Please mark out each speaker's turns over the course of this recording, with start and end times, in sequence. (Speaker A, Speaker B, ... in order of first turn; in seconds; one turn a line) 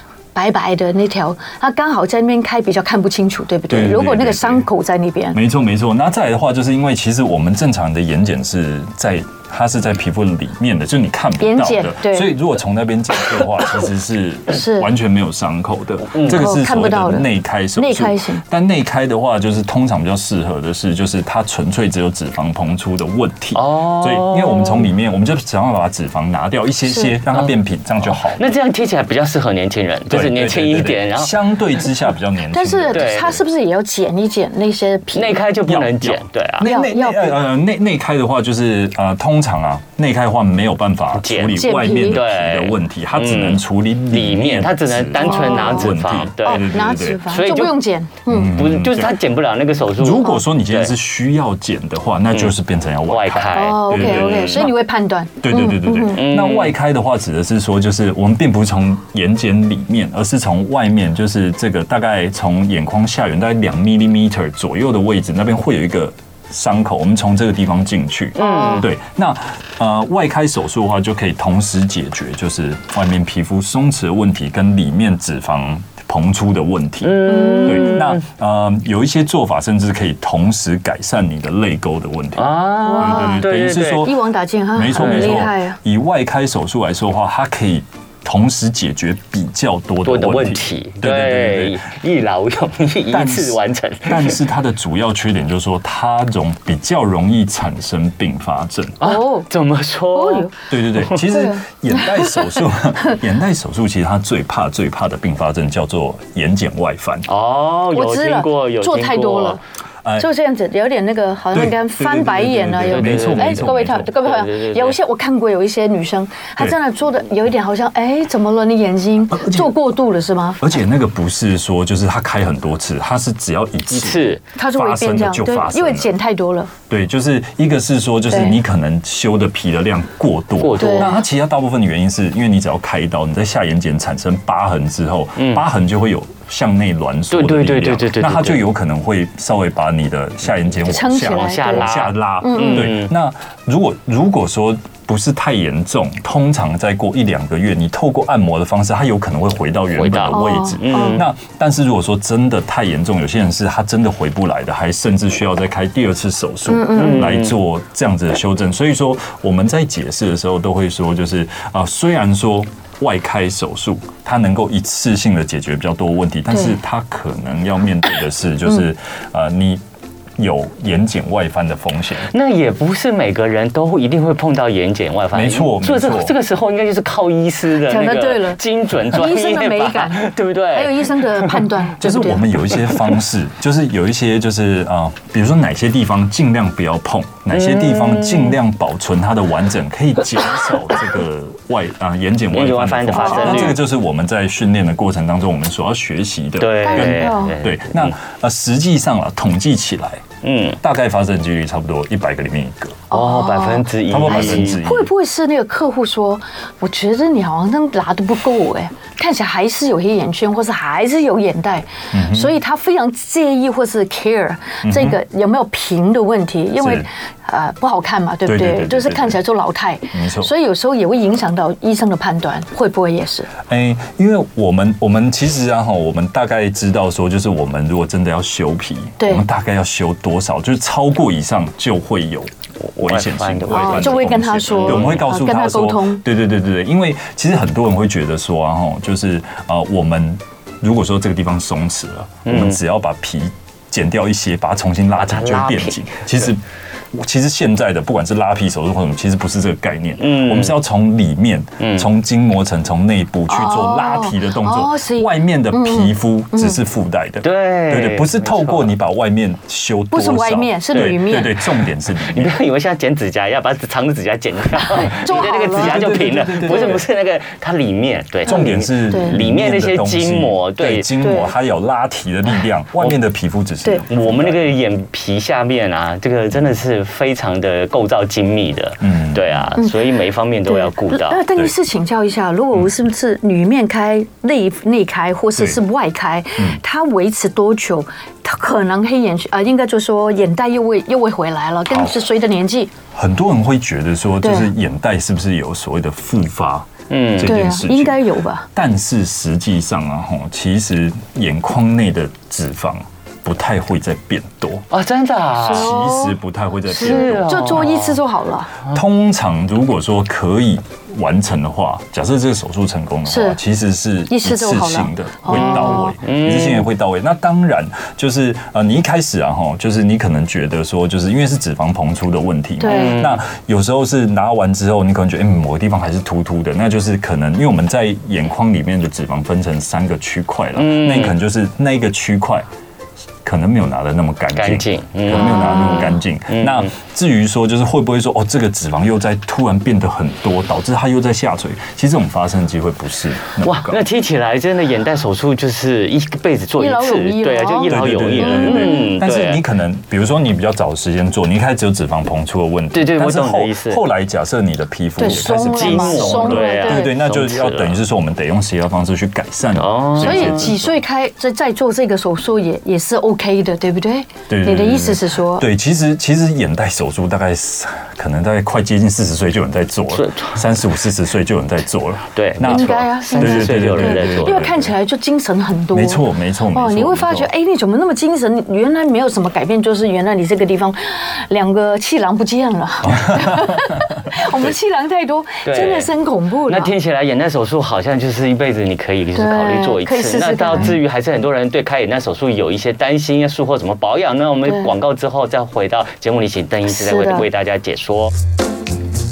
Speaker A: 0.3-5.4
Speaker B: 3.7-4.7
Speaker B: 5.3-28.4
Speaker A: 11.4-12.4
Speaker A: 14.5-14.9
Speaker C: 16.1-16.4
Speaker A: 16.3-18.4
Speaker C: 23.6-24.9
Speaker A: 26.9-27.1
Speaker C: 28.1-31.4
Speaker B: 30.1-33.4
Speaker A: 32.5-35.4
Speaker C: 32.9-33.4
Speaker C: 35.1-36.7
Speaker B: 35.6-47.2
Speaker A: 36.6-37.4
Speaker C: 41.2-46.7
Speaker A: 41.6-42.2
Speaker A: 45.2-45.9
Speaker A: 46.4-48.6
Speaker C: 47.3-47.8
Speaker B: 48.3-49.2
Speaker C: 48.5-50.9
Speaker B: 50.0-54.7
Speaker C: 53.1-54.7
Speaker A: 53.5-56.2
Speaker B: 55.4-84.2
Speaker C: 56.1-56.8
Speaker C: 68.4-68.9
Speaker A: 68.4-68.9
Speaker C: 77.0-78.2
Speaker A: 77.3-78.1
Speaker C: 82.4-84.1
Speaker A: 82.8-85.8
Speaker B: 84.7-91.8
Speaker C: 85.0-85.5
Speaker C: 90.0-94.4
Speaker B: 93.1-99.0
Speaker C: 99.0-101.2
Speaker A: 99.0-99.5
Speaker A: 100.1-100.5
Speaker B: 100.7-107.3
Speaker A: 101.2-102.6
Speaker C: 107.3-109.6
Speaker A: 107.9-109.6
Speaker B: 110.0-110.3
Speaker A: 110.2-120.6
Speaker B: 111.5-114.1
Speaker C: 112.8-115.0
Speaker B: 119.3-119.7
Speaker B: 120.6-126.1
Speaker C: 123.9-124.4
Speaker A: 124.5-126.7
Speaker B: 126.9-169.8
Speaker A: 128.3-128.6
Speaker C: 130.6-131.2
Speaker A: 130.8-131.2
Speaker C: 135.4-135.6
Speaker C: 137.3-138.7
Speaker A: 140.9-141.9
Speaker C: 141.3-143.1
Speaker A: 142.4-142.9
Speaker C: 149.9-151.2
Speaker A: 150.3-151.2
Speaker A: 156.7-157.3
Speaker C: 156.9-157.6
Speaker B: 170.4-172.3
Speaker C: 172.3-181.7
Speaker B: 175.3-176.3
Speaker A: 177.8-182.5
Speaker B: 182.0-200.2
Speaker C: 187.5-188.6
Speaker C: 192.5-193.8
Speaker A: 193.1-193.7
Speaker C: 196.6-198.1
Speaker A: 196.8-197.6
Speaker C: 200.4-200.8
Speaker B: 200.8-203.0
Speaker C: 203.1-204.8
Speaker A: 203.1-223.5
Speaker B: 204.1-205.1
Speaker B: 212.1-212.6
Speaker B: 214.8-215.2
Speaker B: 216.8-217.1
Speaker B: 218.4-219.4
Speaker B: 220.1-220.5
Speaker B: 223.7-246.6
Speaker A: 229.2-229.4
Speaker C: 232.8-235.2
Speaker A: 233.7-236.2
Speaker C: 242.4-242.8
Speaker C: 245.2-246.2
Speaker B: 247.1-262.5
Speaker C: 250.2-250.8
Speaker C: 251.8-252.1
Speaker A: 253.5-256.8
Speaker C: 257.4-258.9
Speaker A: 260.1-261.6
Speaker C: 260.9-261.2
Speaker C: 262.2-271.1
Speaker A: 264.9-267.0
Speaker B: 265.3-267.1
Speaker B: 268.4-274.7
Speaker A: 268.5-269.4
Speaker A: 271.2-271.5
Speaker C: 274.1-281.4
Speaker B: 279.0-279.6
Speaker A: 279.8-280.0
Speaker A: 280.6-292.9
Speaker B: 291.9-292.2
Speaker B: 293.1-304.9
Speaker A: 294.4-294.7
Speaker C: 297.1-297.5
Speaker A: 297.4-298.7
Speaker C: 304.9-306.0
Speaker A: 305.6-306.4
Speaker B: 305.7-307.9
Speaker A: 306.9-308.7
Speaker C: 306.9-308.2
Speaker B: 308.9-332.7
Speaker A: 313.3-313.6
Speaker A: 314.3-316.1
Speaker C: 315.5-316.9
Speaker A: 322.8-323.2
Speaker C: 322.9-323.4
Speaker C: 330.8-331.4
Speaker B: 333.4-344.0
Speaker C: 334.6-336.9
Speaker A: 335.3-336.2
Speaker C: 343.6-349.6
Speaker A: 346.8-349.1
Speaker B: 347.9-360.9
Speaker C: 352.9-354.0
Speaker A: 355.2-357.1
Speaker C: 355.3-358.0
Speaker C: 359.8-360.7
Speaker A: 360.2-365.6
Speaker B: 364.5-374.9
Speaker C: 370.1-370.6
Speaker C: 372.4-374.8
Speaker A: 372.6-386.9
Speaker B: 375.9-377.5
Speaker B: 383.0-384.2
Speaker C: 385.6-386.1
Speaker C: 386.6-398.3
Speaker A: 389.3-390.9
Speaker A: 396.9-397.5